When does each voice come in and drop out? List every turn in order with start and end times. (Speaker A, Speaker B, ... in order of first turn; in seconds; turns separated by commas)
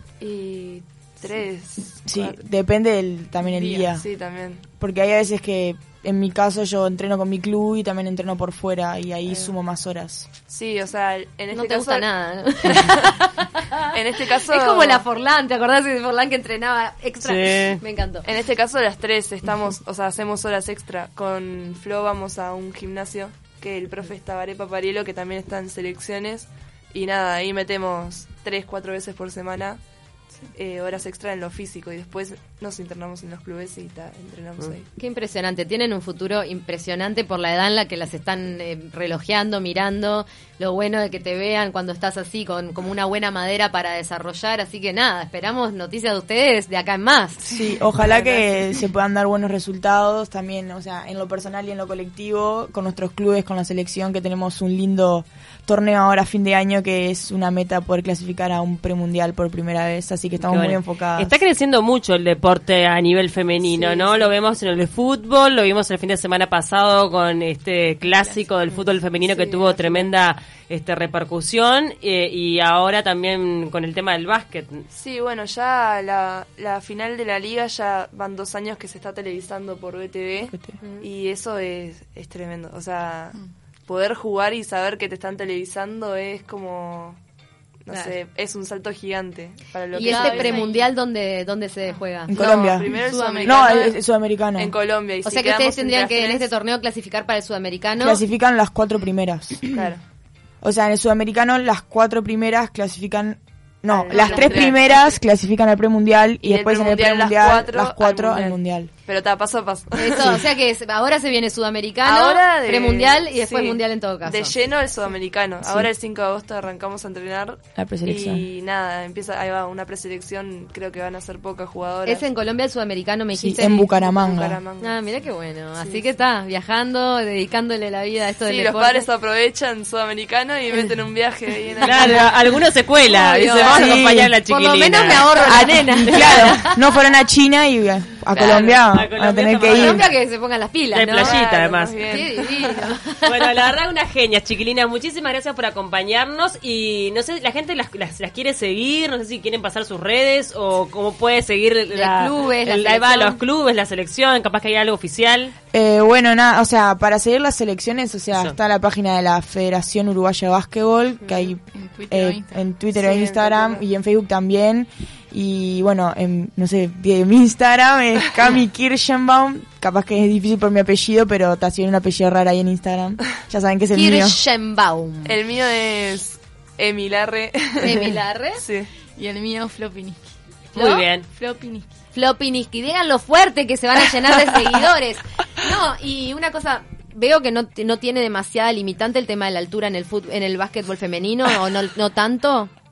Speaker A: 0.2-2.4, Speaker B: 2.1-4.0, Speaker C: 3.5-3.9, Speaker A: 3.9-4.6, Speaker B: 4.8-10.3, Speaker A: 9.3-9.5, Speaker A: 10.5-12.1, Speaker D: 11.5-13.9, Speaker A: 13.9-15.0, Speaker D: 14.5-18.3, Speaker E: 17.2-17.8, Speaker A: 18.2-29.8, Speaker A: 30.6-34.9, Speaker D: 35.0-47.4, Speaker A: 47.4-48.6, Speaker B: 47.5-61.3, Speaker E: 60.4-74.8, Speaker A: 63.6-64.3, Speaker A: 69.3-70.1, Speaker A: 74.9-83.4, Speaker B: 80.5-80.8, Speaker D: 80.8-81.1, Speaker A: 83.9-87.2, Speaker A: 87.8-90.7, Speaker D: 87.9-88.2, Speaker D: 89.9-92.4, Speaker C: 90.0-90.9, Speaker B: 92.3-94.7, Speaker A: 92.3-94.0, Speaker C: 92.8-93.9, Speaker A: 94.6-96.5, Speaker D: 95.2-98.2, Speaker B: 98.0-99.9, Speaker A: 99.7-100.0, Speaker B: 100.6-108.9, Speaker A: 103.9-105.1, Speaker D: 104.1-104.7, Speaker A: 106.4-110.4, Speaker D: 110.0-114.6, Speaker A: 112.0-122.3, Speaker B: 117.8-118.5, Speaker D: 122.0-123.8, Speaker A: 123.4-125.0, Speaker B: 123.5-124.6, Speaker D: 124.8-129.1, Speaker A: 125.8-126.1, Speaker A: 128.4-132.3, Speaker E: 131.8-135.7, Speaker D: 133.1-136.8, Speaker B: 133.6-134.3, Speaker B: 135.4-140.1, Speaker D: 138.3-138.8, Speaker E: 138.3-140.1, Speaker D: 139.6-141.4, Speaker E: 140.9-142.2, Speaker A: 141.1-142.9, Speaker D: 142.0-143.6, Speaker E: 143.2-155.5, Speaker D: 151.9-153.4, Speaker B: 155.7-174.4, Speaker D: 161.2-161.5, Speaker C: 161.7-162.7, Speaker A: 162.9-163.8, Speaker D: 173.9-175.4, Speaker A: 175.2-178.9, Speaker D: 177.8-178.6, Speaker B: 177.8-178.1, Speaker C: 179.2-180.3, Speaker E: 180.8-181.3, Speaker D: 180.8-181.1, Speaker C: 181.2-181.9, Speaker D: 182.1-192.7